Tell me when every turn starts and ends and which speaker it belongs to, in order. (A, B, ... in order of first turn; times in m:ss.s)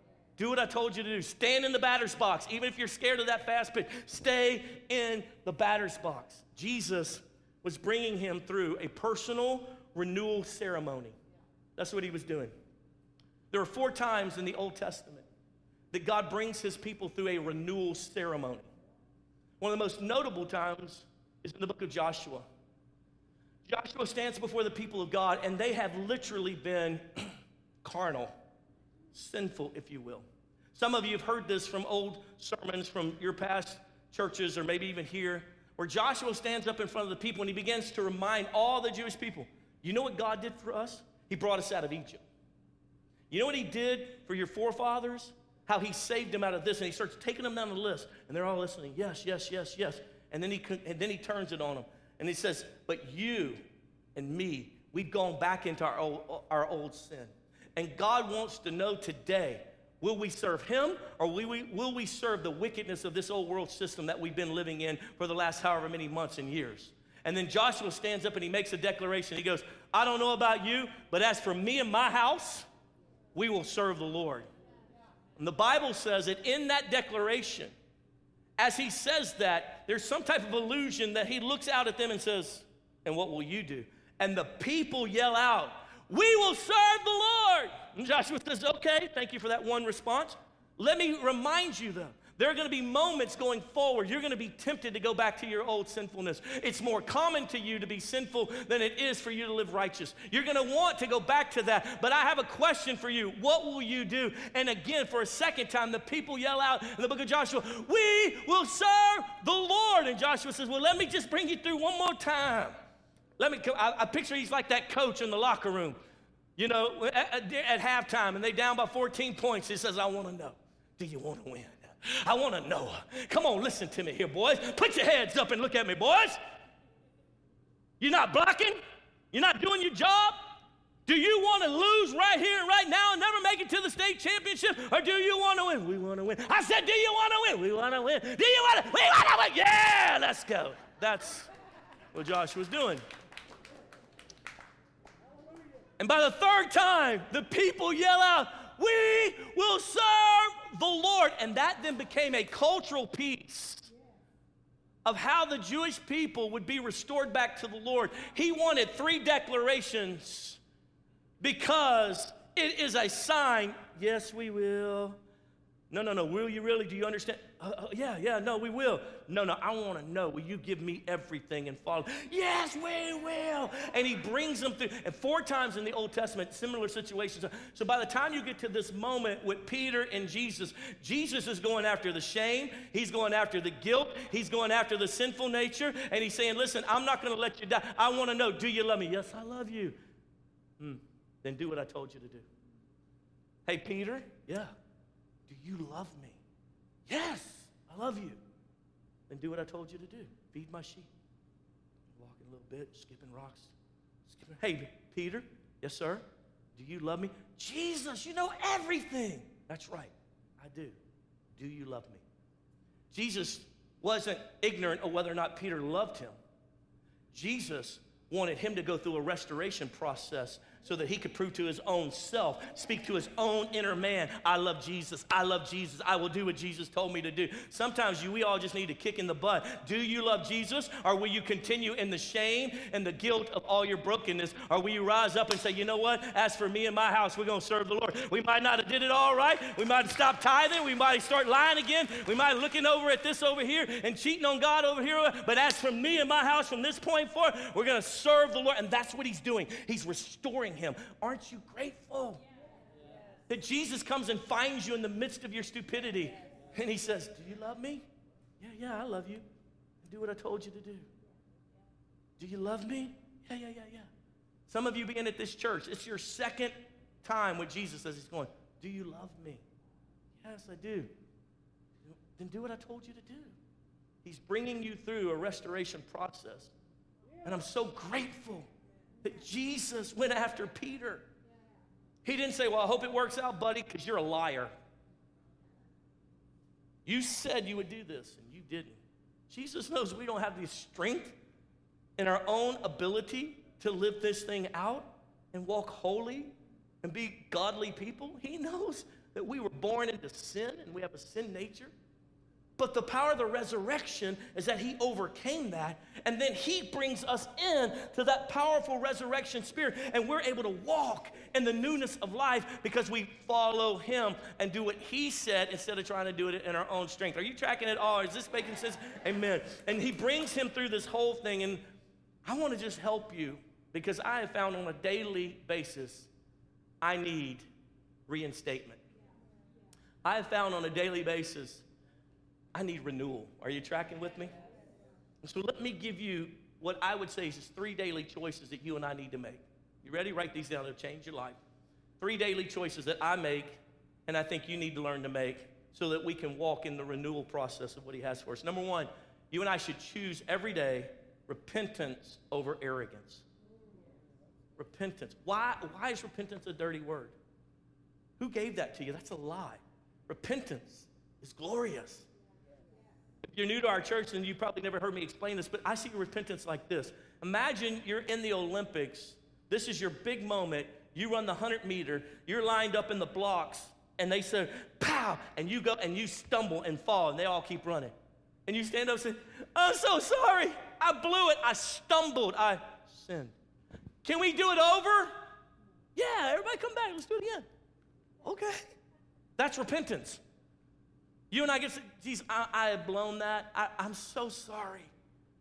0:00.4-0:11.2 A
0:11.8-0:12.5 A
0:13.5-0:15.2 A
0:15.9-0:18.7 A
0:19.6-0:22.4 A
0:23.6-0:28.3 A
0:29.1-0:42.2 A
0:43.3-0:53.6 A
0:54.1-1:12.7 A
1:13.3-1:14.5 A
1:15.4-1:17.7 A
1:18.6-1:52.7 A
1:53.4-1:56.0 A
1:56.6-2:06.4 A
2:08.0-2:08.8 A
2:09.3-2:21.5 A
2:22.1-2:23.0 A
2:26.0-2:33.9 A
2:35.0-2:40.6 A
2:41.4-2:45.2 A
2:45.9-3:10.0 A
3:10.8-3:12.5 A
3:13.7-3:14.7 A
3:15.5-3:16.4 A
3:17.1-3:18.4 A
3:19.3-3:21.1 A
3:22.1-3:23.7 A
3:24.2-3:26.2 A
3:26.7-3:31.0 A
3:31.5-3:32.2 A
3:33.1-3:36.3 A
3:37.3-4:12.4 A
4:13.5-4:18.0 A
4:18.6-4:19.4 A
4:20.0-4:21.1 A
4:22.4-4:24.1 A
4:24.7-4:29.6 A
4:30.4-4:31.1 A
4:32.0-4:33.6 A
4:34.2-4:36.7 A
4:37.4-4:38.7 A
4:39.2-4:41.3 A
4:42.2-4:44.7 A
4:47.0-4:51.4 A
4:52.2-5:01.9 A
5:02.8-5:21.8 A
5:22.4-5:26.3 A
5:27.0-5:27.6 A
5:28.3-5:29.0 A
5:30.2-5:31.8 A
5:32.7-5:34.5 A
5:35.4-5:41.6 A
5:42.2-5:53.4 A
5:54.8-5:57.4 A
5:58.4-6:02.3 A
6:03.4-6:18.1 A
6:18.7-6:23.5 A
6:24.2-6:25.4 A
6:26.1-6:27.6 A
6:28.4-6:29.0 A
6:29.6-6:30.4 A
6:31.5-6:35.1 A